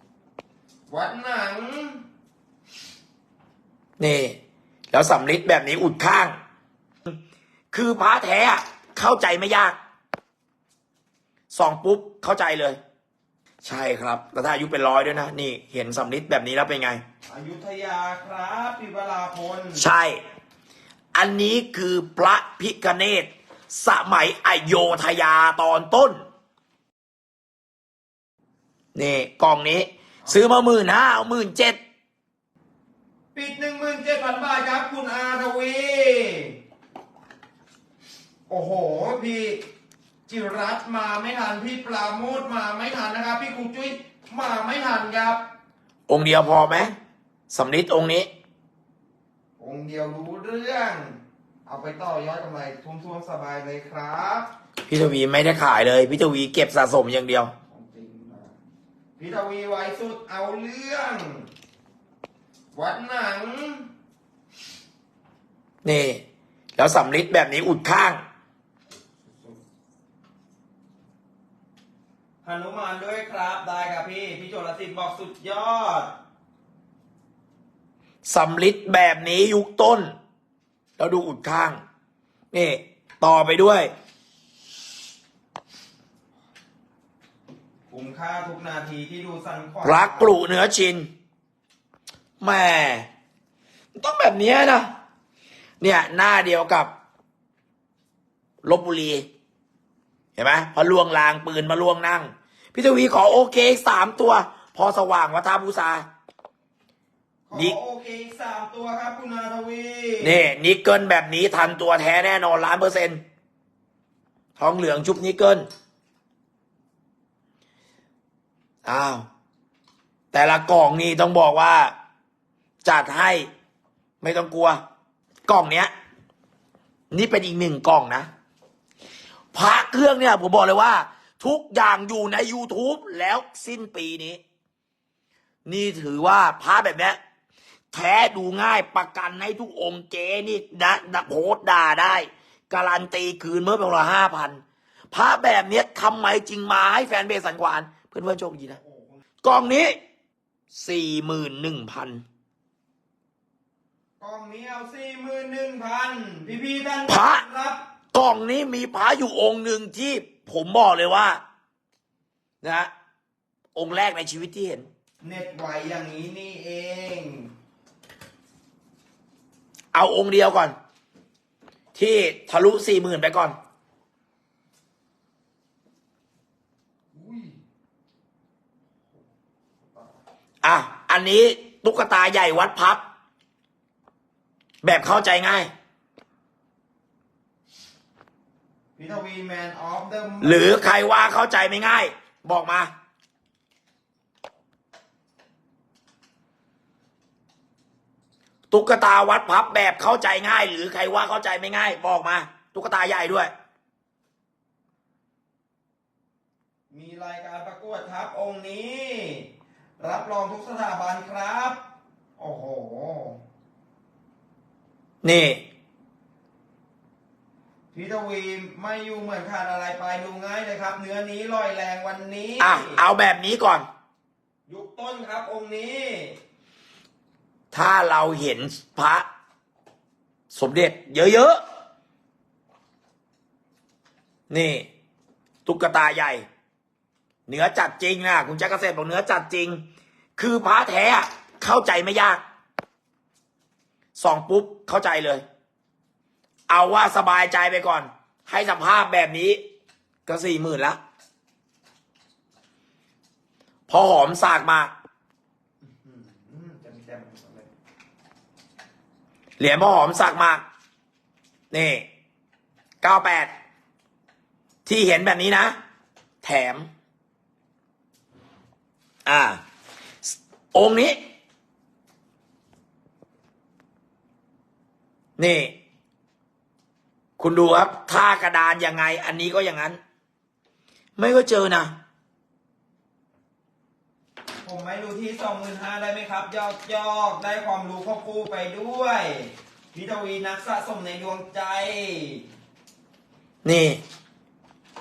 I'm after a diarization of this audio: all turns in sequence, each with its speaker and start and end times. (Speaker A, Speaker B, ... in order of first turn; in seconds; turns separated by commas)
Speaker A: 0.9-2.0, Speaker B: 4.0-4.3, Speaker B: 4.9-6.3, Speaker B: 7.7-9.8, Speaker B: 11.5-12.8, Speaker B: 13.6-17.0, Speaker A: 17.3-19.8, Speaker B: 19.8-20.2, Speaker B: 21.1-26.2, Speaker B: 28.9-31.8, Speaker A: 33.3-36.5, Speaker A: 38.5-39.6, Speaker A: 40.3-45.4, Speaker B: 46.1-46.9, Speaker B: 47.5-48.3, Speaker A: 49.6-54.5, Speaker B: 54.9-57.5, Speaker A: 57.7-58.5, Speaker A: 59.2-61.5, Speaker A: 62.7-63.9, Speaker B: 65.8-66.2, Speaker B: 66.8-68.2, Speaker A: 69.2-69.6, Speaker A: 72.4-76.1, Speaker B: 78.2-80.1, Speaker B: 81.0-81.8, Speaker B: 82.5-83.9, Speaker A: 87.9-90.3, Speaker B: 89.8-91.1, Speaker B: 92.4-93.1, Speaker B: 94.0-94.9, Speaker B: 95.8-96.9, Speaker B: 98.6-99.2, Speaker B: 100.4-106.0, Speaker A: 107.5-110.4, Speaker B: 110.2-113.2, Speaker B: 114.6-115.7, Speaker B: 118.8-119.2, Speaker B: 120.3-121.9, Speaker B: 122.8-123.5, Speaker B: 124.2-124.8, Speaker B: 125.5-125.9, Speaker B: 127.1-128.3, Speaker B: 129.5-134.4, Speaker B: 135.7-137.2, Speaker B: 137.9-144.6, Speaker B: 145.1-148.8, Speaker A: 148.7-149.2, Speaker B: 149.4-150.0, Speaker B: 150.7-152.2, Speaker A: 154.2-157.8, Speaker B: 157.1-157.4, Speaker B: 158.1-161.4, Speaker B: 162.6-162.9, Speaker B: 163.7-164.9, Speaker A: 165.2-167.5, Speaker B: 169.9-170.7, Speaker B: 171.9-173.5, Speaker A: 177.1-177.6, Speaker A: 179.8-180.2, Speaker B: 180.6-183.0, Speaker B: 184.8-185.7, Speaker A: 189.0-190.8, Speaker B: 190.4-192.9, Speaker B: 198.7-203.5, Speaker A: 206.9-209.5, Speaker A: 210.0-211.8, Speaker A: 212.4-213.4, Speaker B: 215.2-215.6, Speaker A: 217.9-223.0, Speaker B: 222.6-223.8, Speaker A: 224.7-226.4, Speaker B: 227.7-229.2, Speaker B: 230.5-231.6, Speaker B: 234.5-234.9, Speaker B: 235.7-236.4, Speaker B: 237.5-239.8, Speaker B: 240.4-242.4, Speaker B: 244.2-245.4, Speaker B: 246.7-249.6, Speaker B: 250.3-251.0, Speaker B: 253.9-254.9, Speaker A: 255.8-257.7, Speaker B: 259.6-260.6, Speaker B: 261.7-262.0, Speaker B: 263.0-263.5, Speaker B: 264.9-265.8, Speaker B: 266.4-266.9, Speaker B: 269.2-269.6, Speaker B: 270.2-271.2, Speaker B: 275.4-275.7, Speaker B: 277.4-280.0, Speaker B: 281.2-281.9, Speaker A: 284.6-292.4, Speaker B: 293.6-294.0